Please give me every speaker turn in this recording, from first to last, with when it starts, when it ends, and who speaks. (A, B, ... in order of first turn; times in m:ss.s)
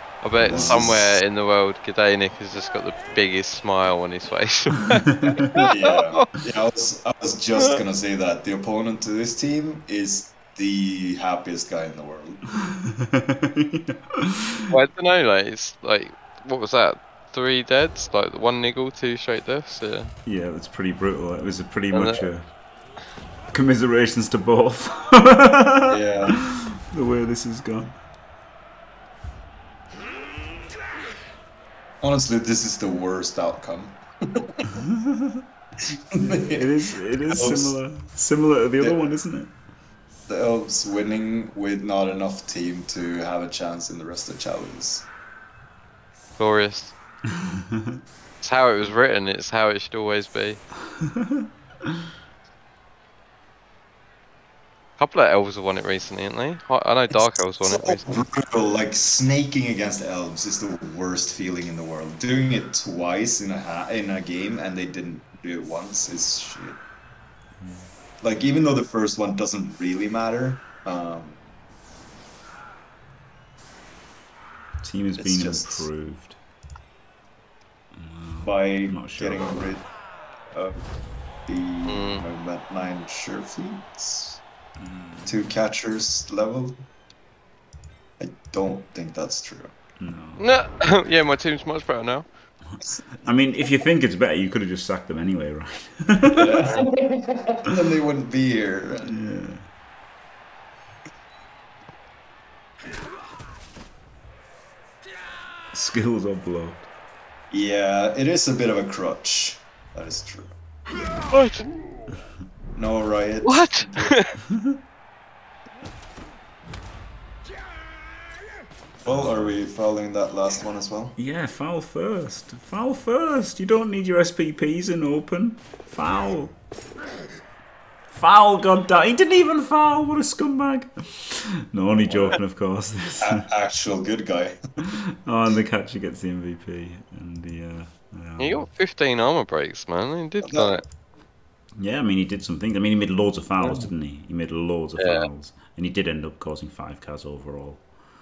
0:00.2-0:06.3 A
0:00.4-0:00.9 B
0:00.4-0:01.2 C
0:05.1-0:05.7 B
0:05.7-0:12.4 C
0:12.6-0:14.7 B
0:14.7-0:20.1 A
0:20.3-0:22.5 B
0:21.9-0:22.2 A
0:23.5-0:28.0 B
0:25.9-0:26.4 C
0:32.0-0:34.8 C
0:34.7-0:35.4 B
0:35.8-0:36.7 C
0:36.2-0:39.5 B
0:37.3-0:37.8 C
0:40.3-0:45.1 C
0:46.4-0:47.0 A
0:47.4-0:48.0 B
0:48.4-0:50.6 A
0:51.0-0:51.9 B
0:55.0-0:58.1 A
0:57.1-1:06.8 C
1:07.6-1:07.9 B
1:08.2-1:11.4 C
1:14.8-1:16.4 B
1:15.2-1:15.9 C
1:18.0-1:19.7 B
1:18.4-1:19.9 C
1:20.5-1:20.9 C
1:21.5-1:24.4 C
1:21.9-1:22.2 A
1:24.8-1:25.4 B
1:25.3-1:26.8 C
1:28.2-1:29.7 C
1:30.0-1:30.5 B
1:30.4-1:32.3 A
1:33.2-1:36.7 B
1:36.3-1:39.2 C
1:39.1-1:39.6 B
1:45.7-1:46.9 B
1:47.5-1:50.5 C
1:51.3-1:51.7 A
1:52.8-1:54.2 C
1:53.4-1:54.3 A
1:59.0-2:01.2 C
1:59.1-1:59.5 B
2:01.2-2:06.6 B
2:08.1-2:13.5 B
2:12.0-2:12.4 C
2:13.2-2:14.6 C
2:14.8-2:18.7 B
2:18.4-2:20.8 A
2:20.4-2:20.8 C
2:21.8-2:27.9 B
2:25.0-2:25.3 A